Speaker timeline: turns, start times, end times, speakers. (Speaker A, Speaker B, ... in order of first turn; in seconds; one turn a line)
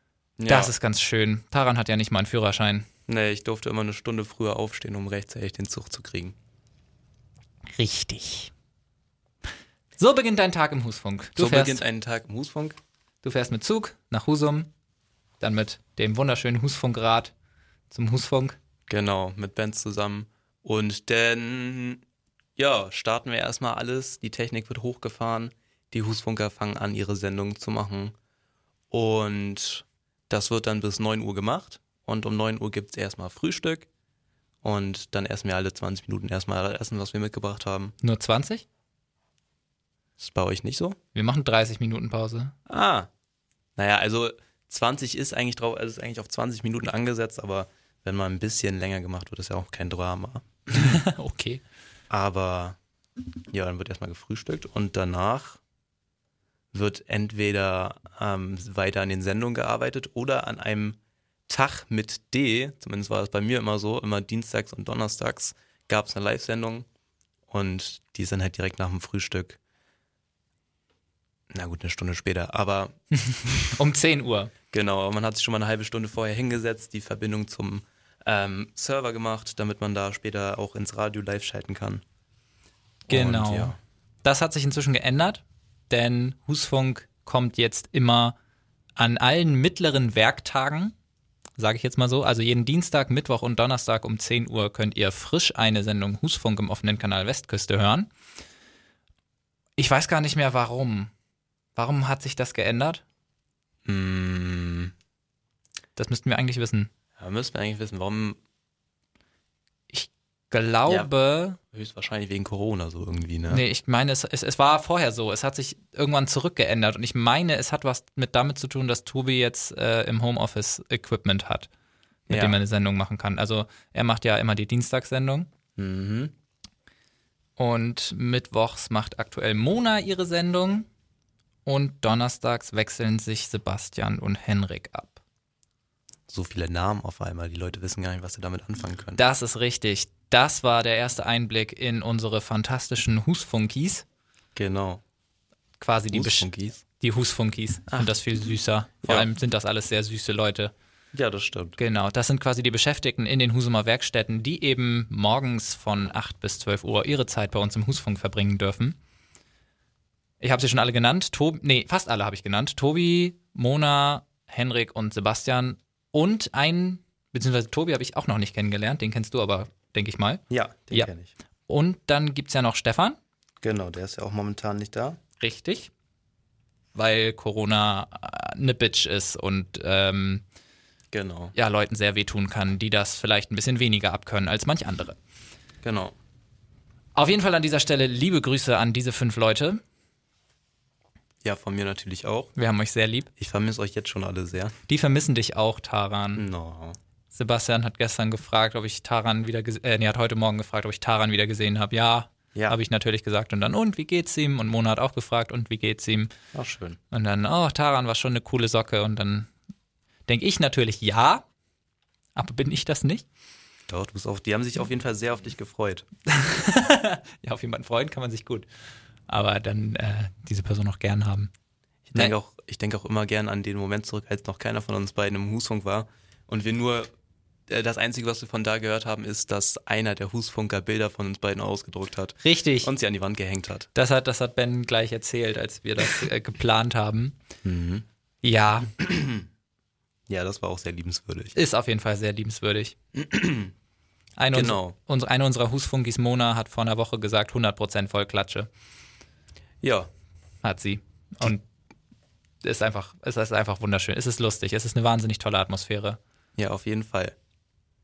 Speaker A: 0.4-0.7
Speaker B: 0.5-2.9
Speaker A: 3.1-6.4
Speaker B: 7.8-8.5
Speaker B: 10.0-11.8
Speaker A: 11.4-12.8
Speaker B: 13.2-14.7
Speaker B: 15.4-17.3
Speaker B: 17.9-18.6
Speaker A: 18.9-22.0
Speaker A: 22.6-28.1
Speaker A: 28.9-33.9
Speaker A: 34.6-38.0
Speaker B: 38.0-38.6
Speaker A: 40.2-41.0
Speaker B: 41.1-42.5
Speaker A: 42.7-43.1
Speaker A: 43.8-51.0
Speaker B: 50.7-51.6
Speaker A: 52.1-52.8
Speaker A: 53.5-55.6
Speaker A: 56.7-66.9
Speaker A: 67.5-69.6
Speaker A: 71.5-73.0
Speaker B: 73.2-74.5
Speaker A: 74.7-82.0
Speaker B: 83.1-88.4
Speaker A: 83.1-83.8
Speaker B: 89.0-91.0
Speaker B: 91.6-98.1
Speaker B: 99.8-101.1
Speaker B: 101.8-103.0
Speaker A: 103.8-104.9
Speaker B: 106.0-106.9
Speaker A: 107.2-108.4
Speaker B: 109.9-111.6
Speaker A: 111.7-113.6
Speaker B: 113.5-121.7
Speaker B: 122.3-125.5
Speaker A: 122.3-122.6
Speaker A: 125.8-126.3
Speaker B: 127.6-130.9
Speaker B: 131.7-135.2
Speaker A: 136.3-139.2
Speaker B: 139.2-144.1
Speaker A: 144.6-145.0
Speaker B: 145.8-146.5
Speaker A: 146.1-146.8
Speaker B: 147.0-150.7
Speaker A: 151.1-151.8
Speaker B: 151.8-159.0
Speaker B: 160.4-171.1
Speaker A: 170.5-171.3
Speaker B: 171.7-173.2
Speaker A: 173.6-175.2
Speaker B: 175.4-175.9
Speaker B: 176.9-180.4
Speaker A: 181.1-181.5
Speaker B: 181.6-185.2
Speaker A: 185.8-186.2
Speaker B: 187.2-189.8
Speaker A: 191.4-192.5
Speaker B: 192.6-193.3
Speaker A: 193.4-194.8
Speaker B: 194.9-196.5
Speaker A: 196.4-197.0
Speaker B: 197.3-206.3
Speaker A: 206.5-207.0
Speaker B: 207.1-209.5
Speaker B: 210.3-211.4
Speaker B: 212.4-213.3
Speaker A: 213.9-216.1
Speaker B: 216.3-218.7
Speaker B: 219.3-221.5
Speaker A: 222.1-227.1
Speaker A: 227.7-233.9
Speaker B: 232.4-232.9
Speaker B: 233.9-237.4
Speaker A: 237.6-238.1
Speaker B: 238.4-238.9
Speaker A: 239.0-239.5
Speaker A: 240.3-241.6
Speaker B: 241.6-242.9
Speaker A: 243.1-243.7
Speaker B: 244.4-248.7
Speaker A: 244.5-244.9
Speaker A: 249.8-250.1
Speaker B: 250.6-251.7
Speaker B: 252.6-256.2
Speaker A: 256.6-257.4